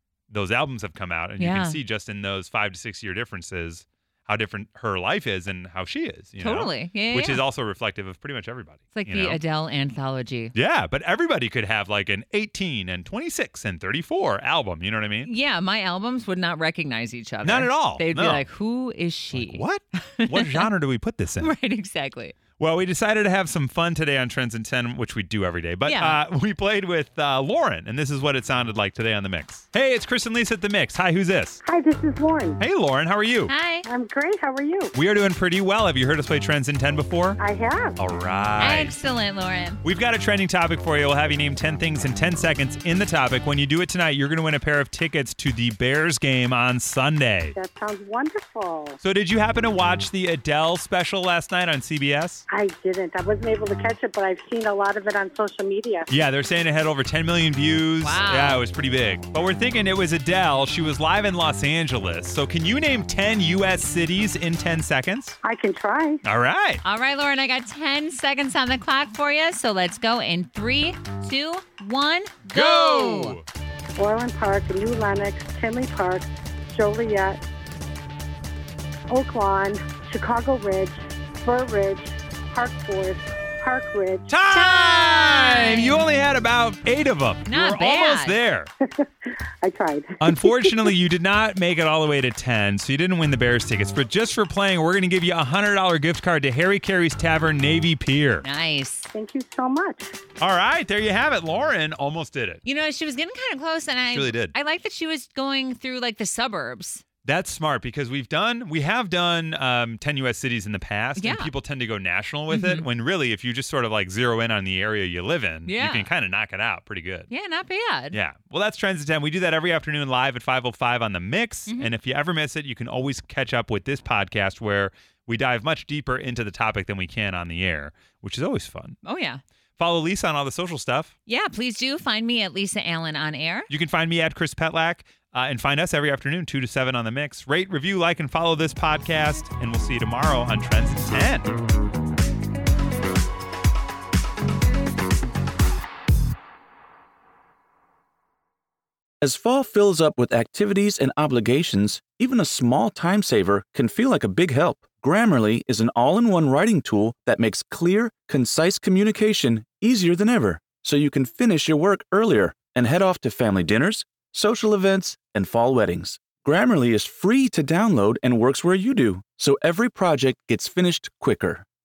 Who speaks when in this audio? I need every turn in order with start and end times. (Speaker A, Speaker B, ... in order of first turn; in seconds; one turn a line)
Speaker A: 0.3-9.4
Speaker B: 1.4-1.8
Speaker B: 6.4-7.4
Speaker B: 8.9-10.5
Speaker A: 10.5-15.3
Speaker B: 15.2-20.7
Speaker A: 17.4-18.4
Speaker A: 19.3-21.5
Speaker B: 21.4-22.4
Speaker A: 22.6-31.6
Speaker B: 25.9-26.2
Speaker C: 31.6-32.6
Speaker A: 32.6-33.5
Speaker B: 33.5-33.9
Speaker C: 33.9-34.9
Speaker A: 34.9-37.4
Speaker C: 37.4-38.0
Speaker A: 38.0-39.0
Speaker B: 38.6-39.8
Speaker A: 39.8-47.5
Speaker C: 47.6-49.0
Speaker A: 49.0-52.4
Speaker C: 52.5-56.1
Speaker A: 56.1-65.4
Speaker B: 58.0-58.6
Speaker C: 65.4-66.2
Speaker A: 66.2-66.8
Speaker B: 66.8-73.4
Speaker A: 72.5-73.5
Speaker C: 74.0-77.4
Speaker C: 79.1-84.3
Speaker A: 84.3-88.7
Speaker B: 84.5-86.0
Speaker B: 87.5-88.4
Speaker C: 89.0-90.9
Speaker A: 90.2-98.5
Speaker B: 98.4-99.1
Speaker C: 99.1-100.1
Speaker A: 100.4-102.6
Speaker B: 102.7-107.0
Speaker A: 104.1-104.5
Speaker A: 107.2-117.3
Speaker B: 111.2-111.5
Speaker B: 112.5-112.9
Speaker B: 115.7-116.1
Speaker B: 117.3-118.2
Speaker A: 118.1-129.0
Speaker B: 121.7-122.0
Speaker B: 129.0-129.4
Speaker A: 129.8-131.1
Speaker B: 131.3-133.7
Speaker A: 133.7-141.5
Speaker D: 149.2-171.7